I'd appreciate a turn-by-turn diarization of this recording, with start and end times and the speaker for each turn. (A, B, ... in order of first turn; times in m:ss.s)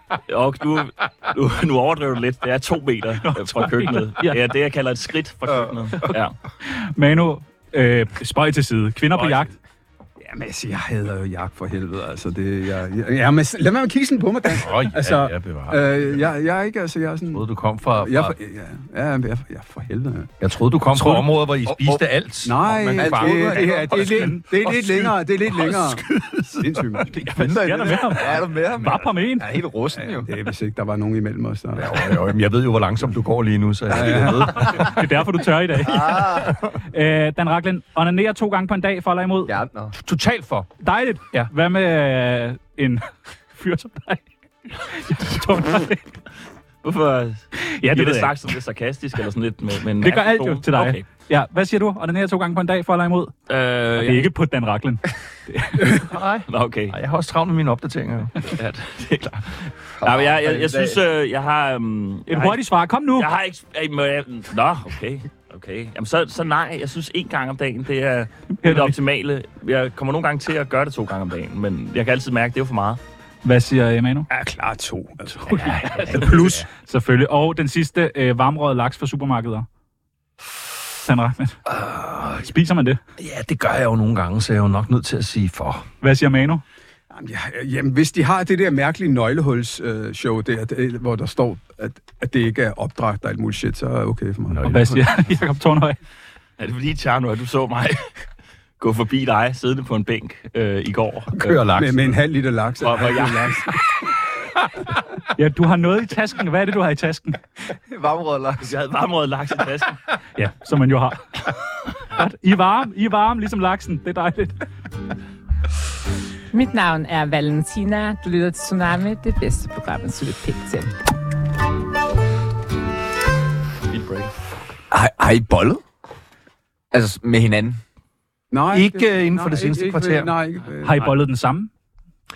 0:00.3-0:06.4 A
0:03.2-0:04.4 B
0:06.6-0:09.5 B
0:09.1-0:09.5 A
0:10.2-0:20.3 C
0:14.5-0:16.1 D
0:17.3-0:18.4 D
0:20.4-0:23.7 D
0:21.6-0:22.0 E
0:22.4-0:26.0 C
0:22.9-0:24.1 E
0:23.6-0:25.0 B
0:24.6-0:27.0 D
0:26.6-0:27.2 C
0:27.1-0:29.5 B
0:27.3-0:30.3 E
0:30.0-0:32.0 C
0:31.7-0:35.1 D
0:33.9-0:34.7 C
0:34.5-0:39.5 B
0:35.8-0:36.6 E
0:39.5-0:39.9 E
0:40.0-0:40.7 D
0:40.8-0:44.2 B
0:44.8-0:46.0 B
0:46.8-0:51.0 A
0:47.6-0:48.3 B
0:50.0-0:53.3 B
0:53.5-0:54.3 A
0:54.0-0:56.0 B
0:55.8-0:58.3 D
0:56.5-0:56.9 A
0:58.4-1:02.6 A
1:00.0-1:01.0 E
1:02.3-1:03.3 B
1:03.1-1:13.0 A
1:08.6-1:08.9 B
1:13.4-1:14.3 B
1:14.3-1:16.6 C
1:15.4-1:19.6 B
1:21.0-1:21.6 B
1:21.6-1:22.5 D
1:22.4-1:23.0 B
1:23.2-1:25.8 D
1:26.0-1:26.6 B
1:27.1-1:35.1 C
1:34.5-1:35.0 D
1:34.7-1:36.0 B
1:36.6-1:38.1 A
1:38.8-1:41.6 A
1:41.4-1:42.2 D
1:41.5-1:44.2 C
1:42.8-1:43.7 A
1:45.4-1:47.4 B
1:47.9-1:48.7 E
1:48.6-1:50.0 A
1:50.4-1:51.4 B
1:52.1-1:54.6 B
1:56.5-2:00.9 F
2:03.9-2:04.3 A
2:04.9-2:05.8 E
2:06.9-2:07.8 E
2:08.5-2:11.1 C
2:08.7-2:10.3 D
2:10.8-2:11.7 B